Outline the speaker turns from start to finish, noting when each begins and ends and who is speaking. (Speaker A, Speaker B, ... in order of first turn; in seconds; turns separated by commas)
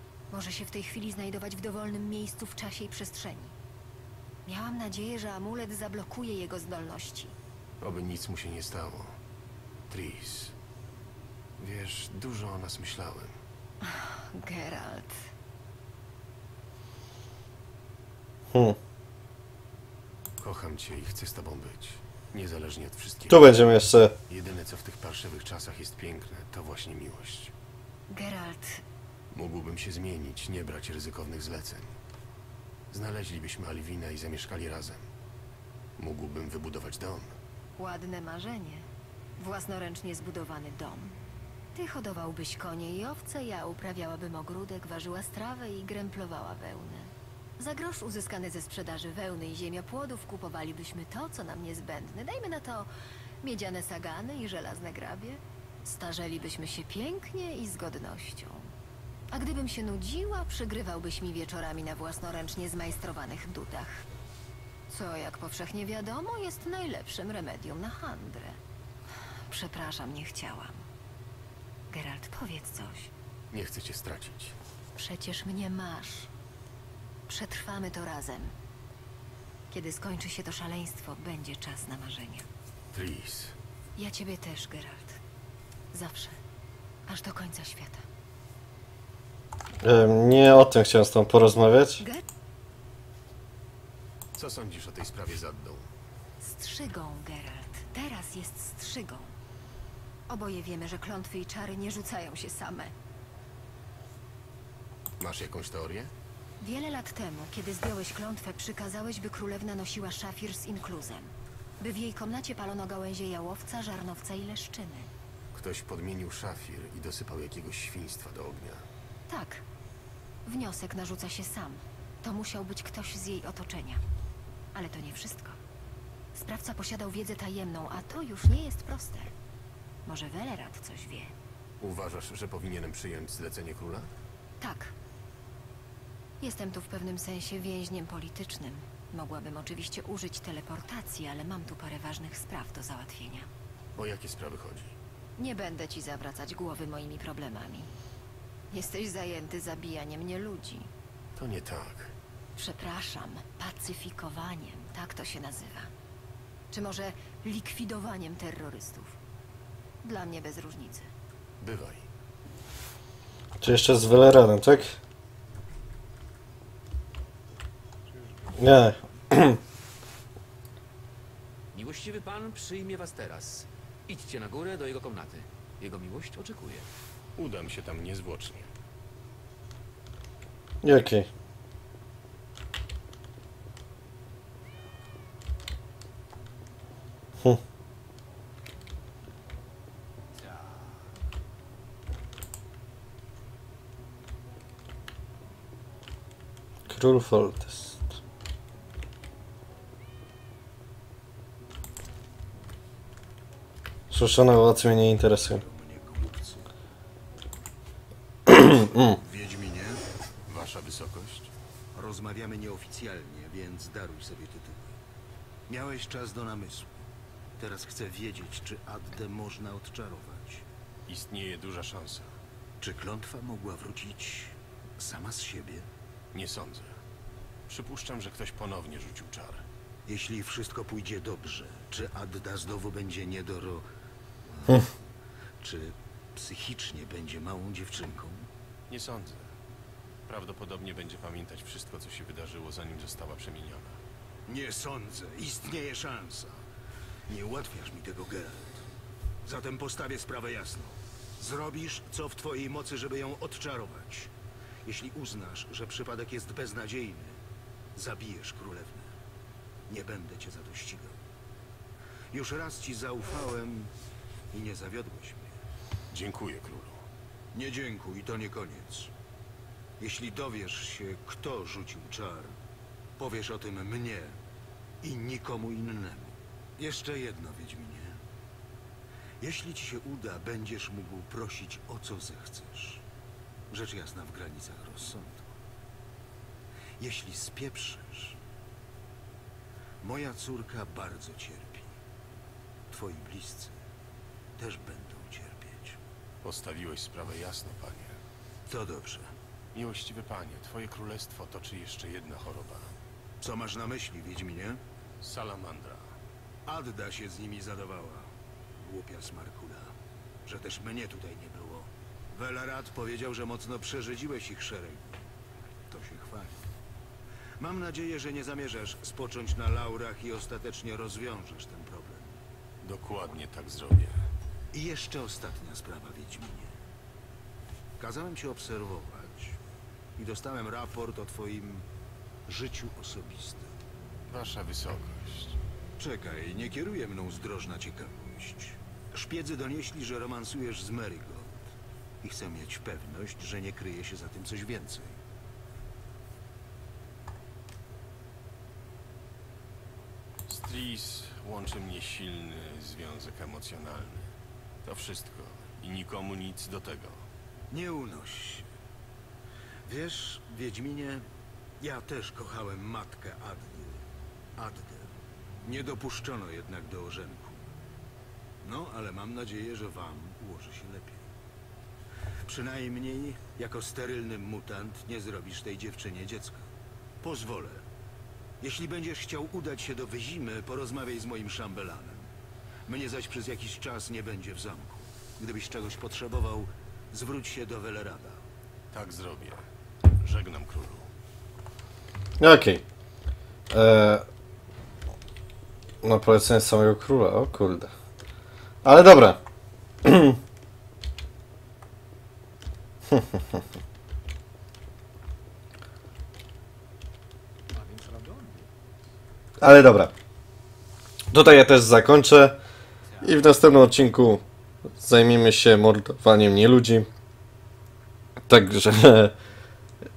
Speaker A: 0.3-3.5, Speaker A: 4.5-7.3, Speaker B: 7.8-9.1, Speaker B: 9.9-10.5, Speaker B: 11.6-13.3, Speaker A: 13.8-15.2, Speaker C: 18.5-18.8, Speaker B: 20.4-23.4, Speaker C: 23.3-24.1, Speaker B: 24.3-27.5, Speaker A: 28.1-28.8, Speaker B: 29.3-31.9, Speaker B: 32.9-35.0, Speaker B: 36.0-37.3, Speaker A: 37.8-38.9, Speaker A: 39.4-41.1, Speaker A: 41.7-52.9, Speaker A: 53.4-58.7, Speaker A: 59.3-64.0, Speaker A: 64.9-68.6, Speaker A: 69.5-70.8, Speaker A: 71.9-73.1, Speaker B: 73.5-74.5, Speaker A: 75.0-76.3, Speaker A: 77.3-78.5, Speaker A: 79.7-82.4, Speaker B: 82.9-83.5, Speaker A: 84.0-85.2, Speaker A: 85.9-86.4, Speaker A: 87.0-88.0, Speaker C: 89.8-92.0, Speaker A: 92.0-92.2, Speaker B: 94.3-95.9, Speaker A: 96.4-99.3, Speaker A: 100.3-102.9, Speaker B: 105.2-106.1, Speaker A: 106.6-115.1, Speaker B: 115.5-118.8, Speaker A: 119.3-119.6, Speaker A: 120.5-124.0, Speaker A: 124.7-125.6, Speaker A: 126.3-129.3, Speaker A: 130.1-131.3, Speaker B: 131.8-134.1, Speaker A: 134.6-134.9, Speaker A: 136.4-143.5, Speaker B: 143.9-144.9, Speaker A: 145.4-147.9, Speaker A: 148.7-150.9, Speaker B: 151.3-152.1, Speaker A: 152.6-155.9, Speaker A: 156.7-159.2, Speaker A: 160.0-161.1, Speaker B: 161.6-162.1, Speaker C: 163.6-165.0, Speaker C: 168.6-169.6, Speaker D: 171.7-176.8, Speaker B: 177.3-178.7, Speaker C: 180.8-181.3, Speaker C: 196.9-198.1, Speaker C: 204.1-205.6, Speaker E: 205.4-206.7, Speaker C: 208.5-209.2, Speaker E: 208.6-210.0, Speaker B: 210.5-211.5, Speaker E: 211.9-214.9, Speaker E: 215.7-217.0, Speaker E: 217.6-220.6, Speaker B: 221.1-222.3, Speaker E: 222.8-225.9, Speaker B: 226.3-227.0, Speaker B: 227.7-229.6, Speaker E: 230.1-233.8, Speaker E: 234.5-234.9, Speaker E: 235.6-238.5, Speaker B: 238.9-239.5, Speaker B: 240.3-244.0, Speaker E: 244.5-246.6, Speaker E: 247.3-248.8, Speaker E: 249.4-254.3, Speaker E: 254.8-257.4, Speaker E: 257.9-259.1, Speaker E: 259.9-261.2, Speaker E: 262.3-263.9, Speaker E: 264.5-265.6, Speaker B: 266.1-267.0, Speaker E: 267.5-269.1, Speaker E: 270.0-272.6, Speaker E: 273.2-274.4, Speaker E: 275.0-278.2, Speaker E: 279.4-283.0, Speaker E: 283.7-285.5, Speaker E: 287.0-288.4, Speaker E: 290.0-291.9, Speaker E: 292.9-293.8, Speaker E: 294.6-296.0, Speaker B: 296.4-298.2, Speaker E: 298.7-299.3, Speaker B: 299.7-302.9, Speaker E: 303.4-304.8, Speaker B: 305.2-306.1, Speaker E: 306.6-309.9, Speaker E: 310.4-315.2, Speaker E: 315.9-316.7, Speaker E: 317.6-322.3, Speaker B: 322.8-324.2, Speaker E: 324.7-326.7, Speaker E: 328.0-329.6, Speaker E: 330.2-331.8, Speaker E: 332.4-333.7, Speaker B: 334.3-335.6, Speaker E: 336.0-345.2, Speaker B: 350.5-354.3, Speaker B: 354.8-357.2, Speaker E: 357.7-358.7, Speaker E: 359.9-361.2, Speaker E: 361.8-364.0, Speaker E: 364.6-367.6, Speaker E: 368.6-371.3, Speaker E: 372.4-376.7, Speaker E: 377.2-377.8, Speaker E: 378.6-382.3, Speaker E: 382.9-388.4, Speaker B: 388.9-389.6, Speaker B: 390.2-391.1, Speaker C: 392.4-392.8, Speaker C: 393.7-394.2, Speaker C: 396.0-397.9, Speaker C: 398.8-399.4, Speaker C: 400.0-400.4, Speaker C: 403.1-403.6, Speaker D: 407.8-408.6, Speaker C: 409.6-410.1, Speaker C: 411.3-412.6, Speaker C: 413.2-414.4, Speaker C: 415.0-417.1, Speaker C: 418.5-419.3